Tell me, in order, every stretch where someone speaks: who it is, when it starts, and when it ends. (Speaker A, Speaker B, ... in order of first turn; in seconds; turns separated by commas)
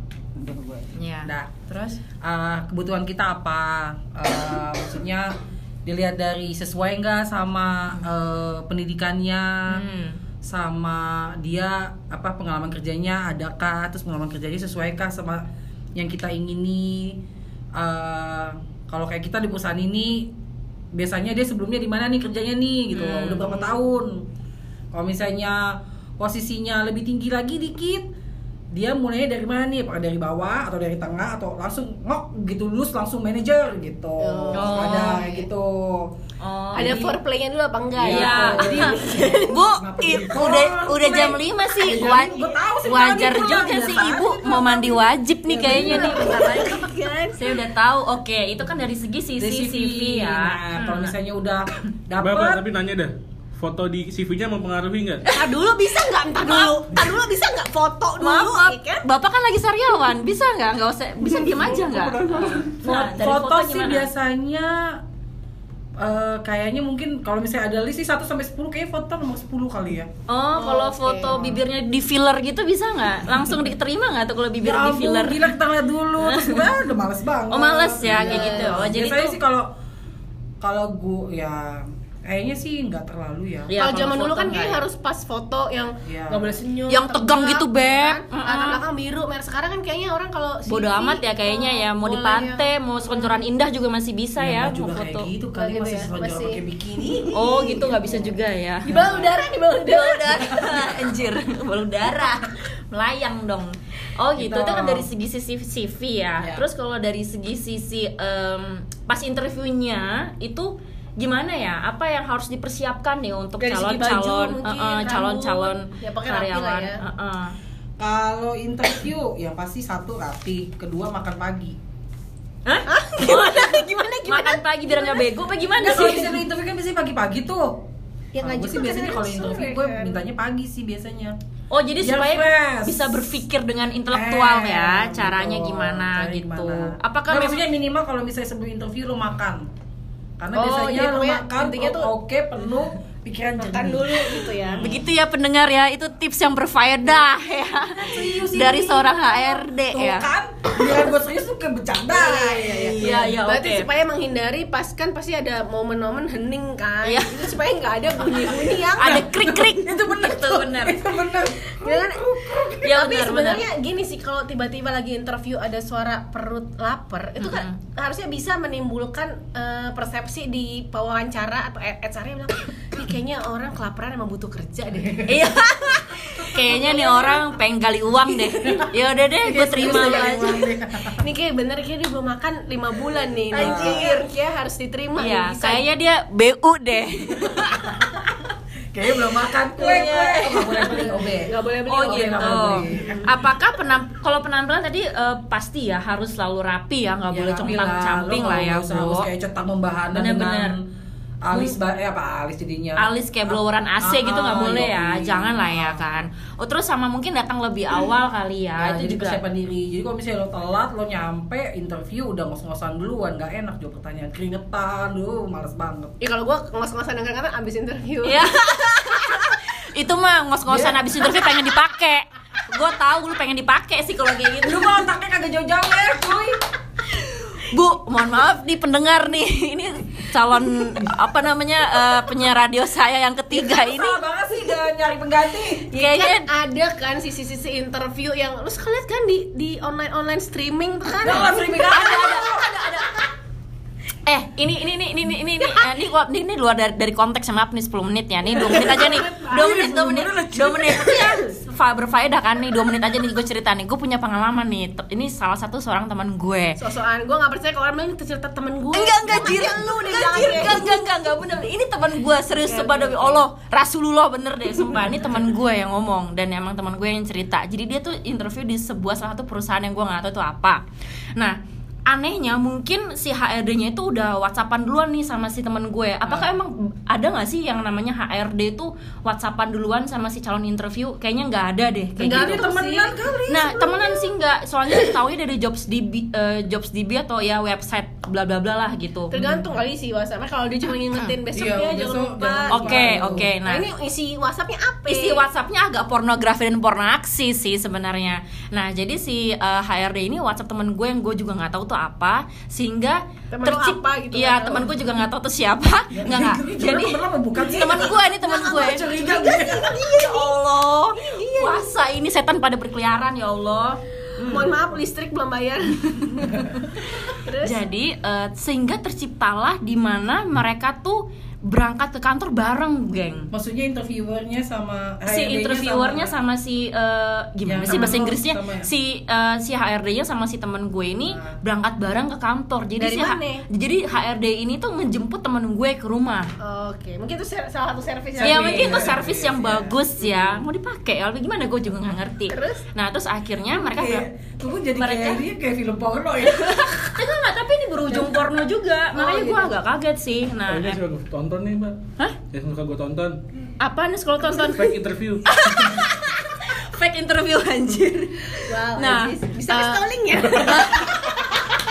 Speaker A: 0.4-9.8, Speaker B: 1.0-1.3, Speaker B: 9.7-10.2, Speaker A: 10.4-17.2, Speaker A: 17.8-20.3, Speaker A: 20.9-24.3, Speaker B: 22.9-23.8, Speaker A: 24.9-28.1, Speaker A: 28.7-36.1, Speaker C: 34.2-35.3, Speaker B: 34.5-35.2, Speaker B: 36.4-37.1, Speaker A: 36.7-37.1, Speaker C: 36.7-39.6, Speaker A: 38.0-46.4, Speaker B: 38.0-46.8, Speaker C: 45.5-47.6, Speaker B: 47.4-51.1, Speaker A: 49.4-52.6, Speaker D: 52.2-55.2, Speaker B: 55.3-57.0, Speaker C: 55.3-59.1, Speaker B: 58.2-64.1, Speaker C: 61.2-62.7, Speaker D: 61.5-62.6, Speaker A: 62.4-65.0, Speaker A: 66.0-70.1, Speaker B: 70.3-75.5, Speaker C: 70.5-71.6, Speaker A: 74.6-79.7, Speaker B: 76.2-76.8, Speaker B: 77.5-79.4, Speaker C: 78.0-78.9, Speaker A: 80.6-83.8, Speaker B: 83.7-84.8, Speaker C: 83.7-93.5, Speaker A: 86.0-86.5, Speaker B: 86.9-88.8, Speaker B: 90.7-95.3, Speaker A: 94.4-97.5, Speaker C: 95.5-98.2, Speaker B: 97.3-99.2, Speaker C: 98.8-100.9, Speaker A: 98.9-99.2, Speaker B: 99.8-117.5, Speaker A: 104.4-105.1, Speaker C: 113.6-117.0, Speaker A: 118.0-121.8, Speaker B: 122.7-126.4, Speaker C: 122.9-125.3, Speaker A: 125.8-127.8, Speaker C: 128.3-130.2, Speaker A: 128.4-131.4, Speaker B: 131.7-137.6, Speaker A: 132.0-133.2, Speaker A: 134.1-139.7, Speaker A: 140.4-145.0, Speaker C: 140.6-142.1, Speaker C: 143.6-145.0, Speaker B: 144.8-150.3, Speaker A: 147.7-153.0, Speaker C: 152.1-159.3, Speaker B: 152.9-153.9, Speaker B: 157.0-157.4, Speaker A: 158.3-162.9, Speaker B: 158.9-161.1, Speaker C: 161.6-177.4, Speaker B: 162.8-163.7, Speaker B: 167.4-167.8, Speaker B: 175.2-180.7, Speaker A: 178.6-178.9, Speaker A: 179.4-181.2, Speaker C: 179.8-180.6, Speaker C: 181.2-185.8, Speaker A: 183.5-184.1, Speaker B: 183.5-184.2, Speaker B: 185.2-188.0, Speaker A: 187.7-188.2, Speaker A: 188.9-193.3, Speaker B: 189.8-191.1, Speaker C: 190.7-193.3, Speaker B: 191.8-199.3, Speaker A: 197.3-200.8, Speaker B: 200.1-200.8, Speaker A: 201.4-206.2, Speaker B: 203.0-209.4, Speaker A: 208.8-216.2, Speaker C: 216.2-218.5, Speaker B: 218.2-225.1, Speaker A: 220.7-221.2, Speaker A: 224.6-226.6, Speaker B: 227.1-234.2, Speaker A: 233.5-235.9, Speaker C: 235.9-243.2, Speaker B: 235.9-236.5, Speaker A: 241.2-243.0, Speaker B: 242.0-242.4, Speaker B: 244.3-256.8, Speaker C: 248.5-250.0, Speaker A: 248.6-251.3, Speaker C: 251.1-251.5, Speaker C: 256.8-261.1, Speaker B: 258.9-270.8, Speaker C: 262.6-263.4, Speaker B: 271.4-282.7, Speaker C: 282.2-283.3, Speaker A: 282.3-284.3, Speaker B: 283.5-289.4, Speaker C: 289.3-295.4, Speaker A: 291.6-293.5, Speaker B: 292.7-293.9, Speaker B: 295.1-309.1, Speaker C: 303.5-305.0, Speaker A: 306.1-309.9, Speaker C: 307.8-311.9, Speaker B: 309.9-314.0, Speaker A: 314.4-314.8, Speaker C: 314.4-316.6, Speaker B: 316.1-316.9, Speaker C: 317.3-317.9, Speaker B: 317.6-323.5, Speaker A: 323.5-326.3, Speaker B: 325.3-336.5, Speaker A: 327.6-328.9, Speaker C: 327.9-328.2, Speaker A: 331.3-331.6, Speaker C: 333.0-333.6, Speaker C: 336.6-339.2, Speaker A: 338.4-339.9, Speaker B: 338.4-344.3, Speaker C: 340.2-340.6, Speaker C: 342.5-342.8, Speaker A: 343.9-347.2, Speaker B: 344.9-345.4, Speaker B: 346.5-351.0, Speaker C: 349.1-349.8, Speaker D: 350.7-353.4, Speaker B: 353.8-361.4, Speaker D: 354.7-355.5, Speaker C: 358.7-361.2